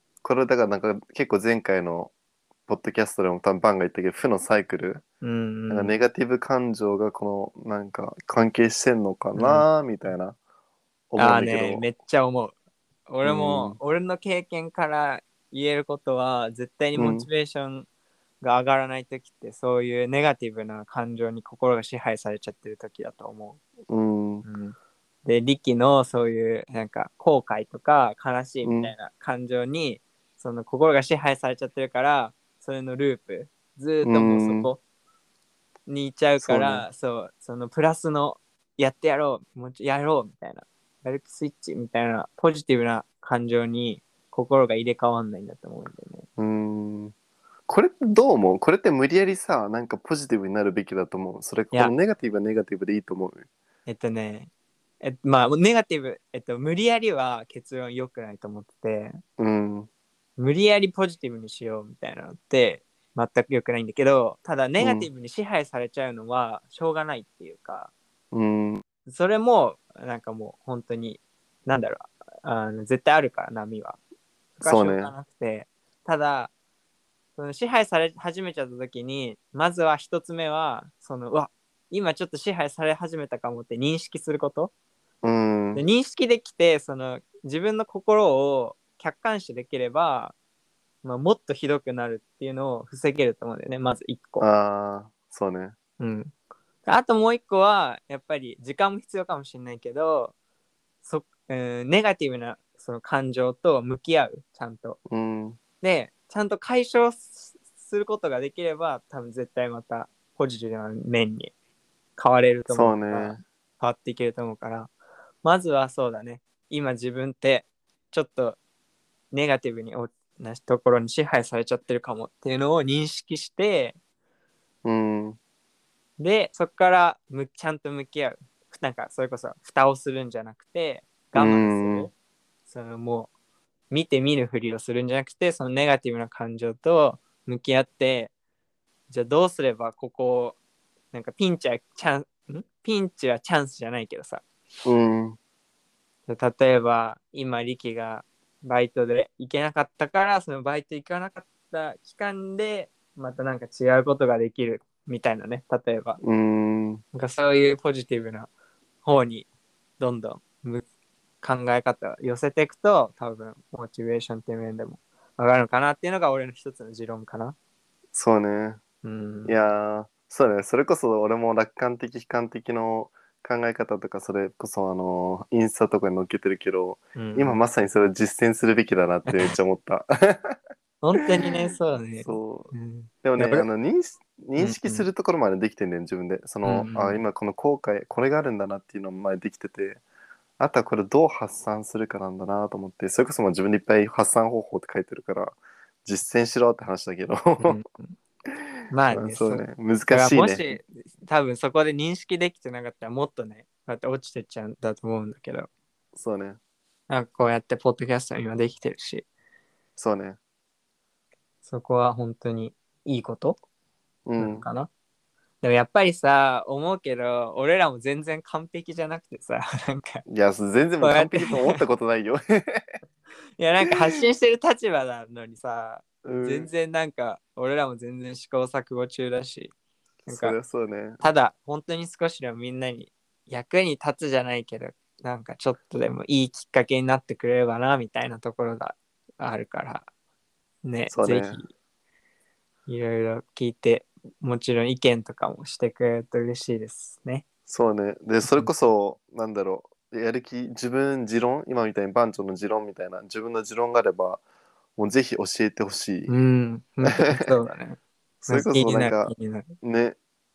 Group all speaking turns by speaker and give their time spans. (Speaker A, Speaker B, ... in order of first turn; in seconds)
Speaker A: 0.2-2.1, 2.7-5.0, 5.7-10.4, 11.1-11.8, 13.2-13.8, 16.9-17.3, 23.9-24.4, 28.6-28.9, 34.0-34.7, 36.4-36.9, 46.4-47.1, 47.7-53.5, 59.4-59.9, 64.8-65.1, 68.3-68.8, 74.6-75.1, 85.2-85.8, 94.4-95.8, 105.1-105.6, 112.7-113.4, 124.8-125.4, 131.3-132.1, 144.9-145.4, 156.2-157.0, 168.1-168.8, 169.5-180.6, 182.2-182.7, 183.2-190.0, 190.6-197.8, 199.1-200.7, 206.2-206.6, 210.0-210.4, 214.3-214.7, 220.3-223.0, 223.9-224.2, 226.2-226.7, 230.3-231.2, 241.1-241.6, 247.7-254.4, 255.0-256.3, 257.0-257.5, 258.4-260.2
Speaker B: 5.2-6.0, 9.4-9.7, 11.2-12.5, 13.1-17.9, 18.4-23.6, 24.4-34.8, 35.9-46.3, 53.9-54.5, 55.0-59.2, 60.4-67.9, 69.1-74.0, 74.6-76.5, 77.4-84.7, 85.8-90.3, 91.0-94.5, 96.0-96.3, 96.9-100.3, 101.0-105.0, 105.8-111.5, 112.2-114.9, 115.4-118.6, 119.3-124.0, 126.2-132.1, 132.7-133.3, 133.9-138.3, 139.1-140.6, 141.1-144.4, 146.3-156.2, 157.1-158.5, 159.1-159.5, 160.0-160.9, 161.4-167.6, 169.0-169.6, 177.2-177.6, 179.3-179.5, 181.0-183.7, 184.6-185.1, 186.7-187.2, 197.6-198.2, 198.9-205.7, 207.1-209.3, 211.7-213.6, 214.4-214.9, 215.6-220.2, 221.0-221.8, 223.6-229.7, 230.3-230.6, 231.2-240.1, 240.8-241.7, 242.9-247.4, 248.4-248.7, 256.3-259.7